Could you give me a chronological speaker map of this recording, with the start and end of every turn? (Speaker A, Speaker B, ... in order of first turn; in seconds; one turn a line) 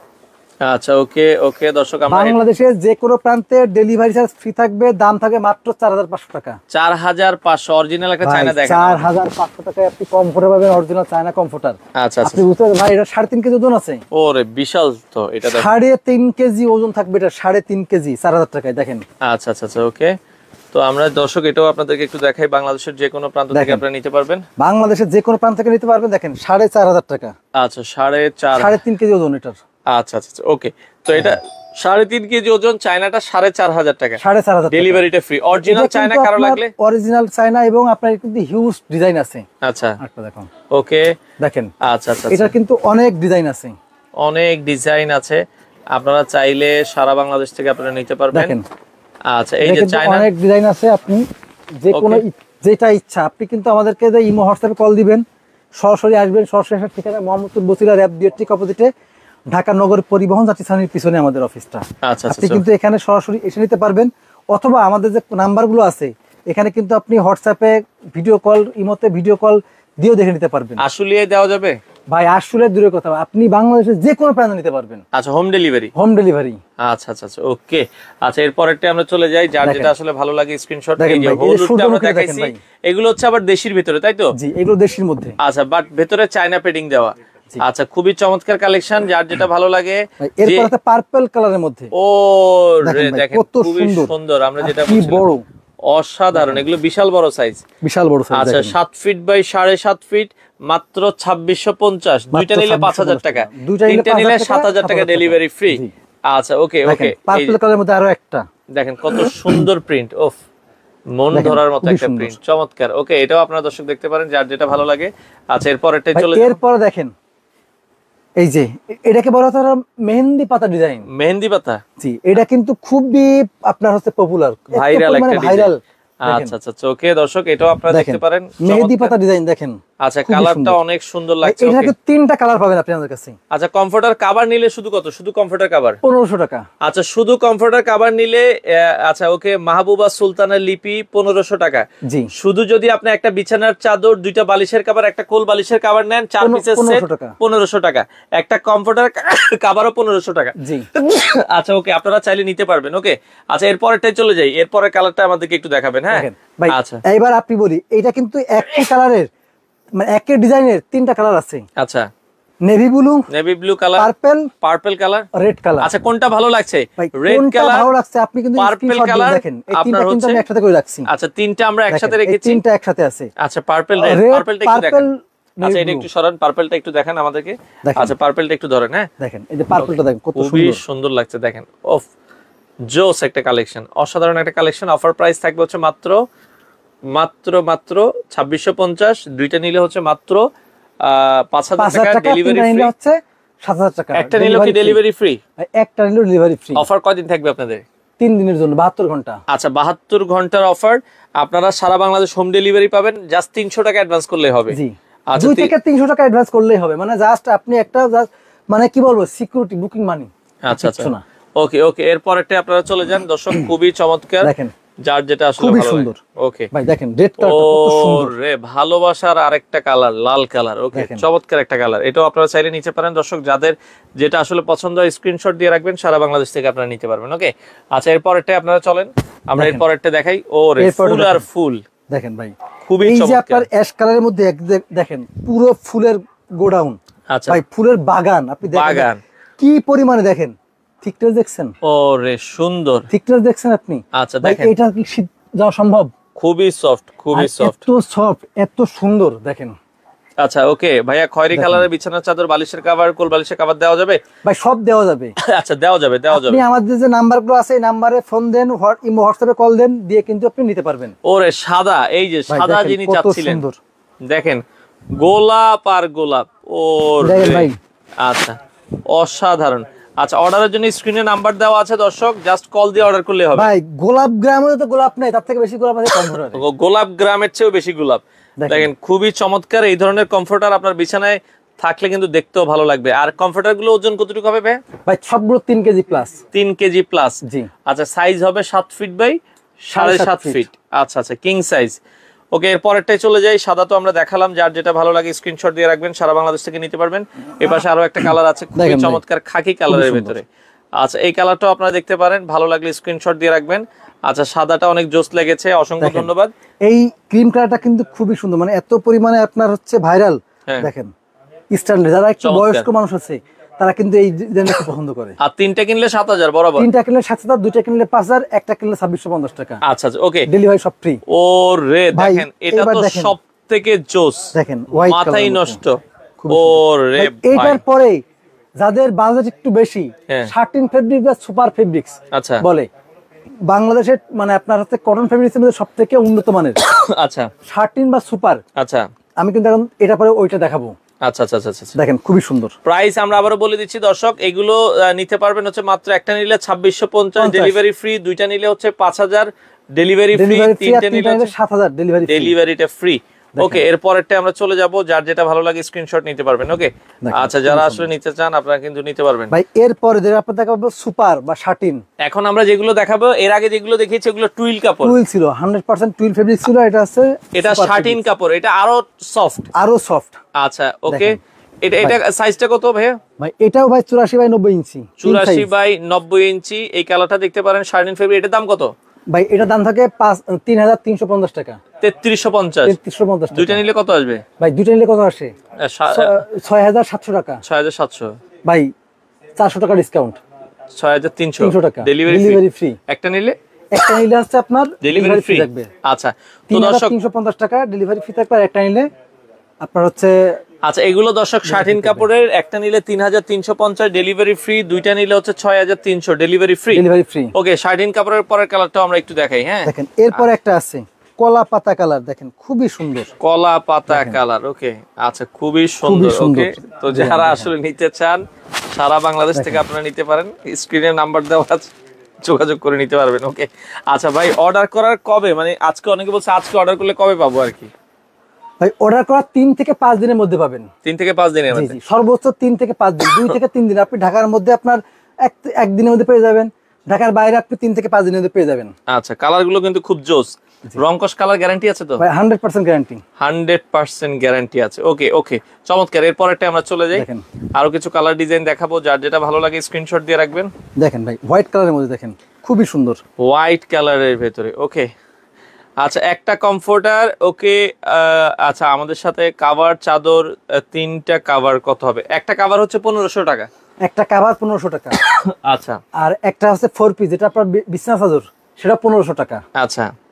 Speaker A: 0.6-2.4
Speaker B: 2.1-6.6
Speaker A: 6.7-9.1
Speaker B: 8.2-14.0
Speaker A: 12.0-12.4
Speaker A: 14.1-15.8
Speaker B: 15.4-19.0
Speaker A: 19.2-20.1
Speaker A: 20.7-24.4
Speaker B: 23.5-23.8
Speaker B: 24.6-27.3
Speaker A: 27.6-28.8
Speaker B: 28.6-29.6
Speaker A: 29.9-36.7
Speaker B: 34.2-39.5
Speaker A: 39.6-40.0
Speaker B: 40.0-40.5
Speaker A: 40.7-41.1
Speaker B: 41.4-41.7
Speaker A: 41.8-42.5
Speaker B: 42.3-43.7
Speaker A: 44.2-45.4
Speaker A: 45.9-48.5
Speaker B: 48.3-48.6
Speaker A: 49.3-50.2
Speaker B: 49.6-51.2
Speaker B: 51.8-55.2
Speaker A: 51.9-52.2
Speaker B: 55.8-58.9
Speaker B: 59.5-70.8
Speaker A: 62.0-62.6
Speaker A: 70.8-71.8
Speaker B: 72.1-75.0
Speaker A: 75.1-75.9
Speaker B: 76.0-76.6
Speaker A: 76.8-84.3
Speaker B: 79.6-79.9
Speaker B: 81.0-82.6
Speaker B: 84.4-85.4
Speaker A: 85.4-90.7
Speaker B: 90.2-91.9
Speaker A: 91.9-95.2
Speaker B: 92.8-95.4
Speaker A: 95.9-97.6
Speaker B: 96.3-96.6
Speaker B: 97.8-98.8
Speaker A: 98.3-107.6
Speaker B: 102.3-105.9
Speaker B: 106.9-108.5
Speaker A: 108.7-110.4
Speaker B: 109.1-109.7
Speaker A: 111.1-116.6
Speaker B: 111.3-112.4
Speaker B: 116.1-117.1
Speaker B: 118.4-121.1
Speaker A: 121.1-121.8
Speaker B: 122.0-126.5
Speaker A: 124.7-125.7
Speaker A: 126.2-129.1
Speaker B: 127.9-130.8
Speaker A: 130.0-131.9
Speaker B: 131.4-133.4
Speaker A: 133.5-136.0
Speaker B: 136.0-136.7
Speaker A: 136.8-157.0
Speaker B: 142.0-142.3
Speaker B: 146.4-147.4
Speaker B: 150.6-150.9
Speaker B: 156.1-159.3
Speaker B: 160.0-161.7
Speaker A: 161.8-162.1
Speaker B: 162.7-163.3
Speaker A: 163.3-164.1
Speaker B: 164.0-164.5
Speaker A: 164.6-165.2
Speaker B: 165.4-165.9
Speaker A: 165.8-167.9
Speaker B: 167.0-171.1
Speaker A: 168.6-170.4
Speaker A: 171.1-172.6
Speaker B: 171.9-173.3
Speaker A: 173.4-175.1
Speaker B: 174.0-176.1
Speaker A: 175.6-179.1
Speaker B: 177.8-178.1
Speaker B: 179.2-180.8
Speaker A: 179.8-182.1
Speaker A: 182.9-186.2
Speaker A: 187.1-190.4
Speaker A: 191.0-192.9
Speaker B: 191.8-195.0
Speaker A: 194.1-195.4
Speaker B: 195.6-196.8
Speaker A: 196.8-197.8
Speaker B: 198.2-199.4
Speaker A: 199.5-205.7
Speaker B: 204.7-211.2
Speaker A: 210.6-216.7
Speaker B: 214.4-214.7
Speaker B: 215.6-216.2
Speaker B: 216.7-218.3
Speaker A: 217.4-231.8
Speaker B: 220.9-221.2
Speaker B: 229.6-229.8
Speaker B: 230.8-231.4
Speaker B: 232.1-237.0
Speaker A: 232.9-233.7
Speaker A: 237.3-237.6
Speaker B: 237.5-241.7
Speaker A: 238.7-239.2
Speaker A: 241.8-243.1
Speaker B: 243.1-246.1
Speaker A: 244.2-244.7
Speaker A: 246.4-247.8
Speaker B: 247.3-249.8
Speaker A: 250.4-254.2
Speaker B: 251.5-251.9
Speaker B: 254.4-255.3
Speaker A: 255.4-256.6
Speaker B: 256.3-261.1
Speaker A: 261.2-263.6
Speaker B: 262.5-263.8
Speaker A: 264.3-264.6
Speaker A: 265.1-273.7
Speaker B: 267.2-267.8
Speaker B: 273.6-276.6
Speaker A: 276.5-284.8
Speaker B: 278.6-278.9
Speaker B: 285.1-286.4
Speaker A: 286.5-289.4
Speaker B: 289.9-290.6
Speaker A: 289.9-292.0
Speaker A: 292.5-300.4
Speaker B: 298.8-299.2
Speaker B: 299.9-300.4
Speaker A: 301.0-306.5
Speaker B: 306.0-306.3
Speaker B: 306.9-311.1
Speaker B: 311.7-315.4
Speaker A: 312.4-312.9
Speaker A: 315.4-316.9
Speaker B: 316.8-319.8
Speaker A: 319.9-320.5
Speaker B: 320.5-321.2
Speaker A: 321.3-326.0
Speaker B: 322.1-323.4
Speaker B: 324.6-325.8
Speaker B: 326.4-328.2
Speaker A: 326.5-327.8
Speaker B: 328.8-332.9
Speaker A: 332.3-332.6
Speaker B: 333.7-336.8
Speaker A: 336.8-337.5
Speaker B: 337.7-338.6
Speaker A: 338.8-339.1
Speaker B: 339.4-340.9
Speaker A: 341.2-342.0
Speaker B: 342.0-342.8
Speaker A: 342.9-351.5
Speaker B: 347.4-347.8
Speaker B: 350.3-352.6
Speaker A: 352.3-359.5
Speaker B: 353.6-353.9
Speaker B: 357.2-358.1
Speaker B: 359.5-362.0
Speaker A: 362.2-365.2
Speaker B: 365.0-368.2
Speaker A: 367.6-369.7
Speaker B: 369.8-370.4
Speaker A: 370.6-373.2
Speaker B: 371.1-371.4
Speaker B: 373.4-375.7
Speaker A: 375.2-378.9
Speaker B: 379.3-381.8
Speaker A: 382.0-383.0
Speaker B: 382.9-383.8
Speaker A: 383.5-384.4
Speaker B: 384.6-385.5
Speaker A: 385.8-386.4
Speaker B: 386.1-387.6
Speaker A: 387.6-388.3
Speaker B: 388.6-388.9
Speaker B: 389.6-390.4
Speaker A: 390.9-393.5
Speaker B: 391.6-393.0
Speaker B: 393.9-395.9
Speaker A: 395.0-397.1
Speaker B: 396.7-399.1
Speaker B: 399.8-400.6
Speaker A: 400.8-407.0
Speaker B: 401.6-402.2
Speaker B: 406.9-407.5
Speaker A: 407.5-410.4
Speaker B: 409.9-413.3
Speaker A: 413.4-421.9
Speaker B: 414.1-414.4
Speaker B: 416.0-417.7
Speaker B: 419.5-419.8
Speaker A: 422.4-427.9
Speaker B: 428.8-430.9
Speaker A: 431.0-432.0
Speaker B: 431.7-438.9
Speaker A: 439.1-442.2
Speaker B: 442.2-443.2
Speaker A: 443.4-450.7
Speaker B: 447.1-447.4
Speaker B: 451.0-453.2
Speaker A: 453.4-455.1
Speaker A: 456.0-463.7
Speaker B: 464.0-465.2
Speaker A: 465.2-466.0
Speaker B: 466.2-469.6
Speaker A: 469.8-470.1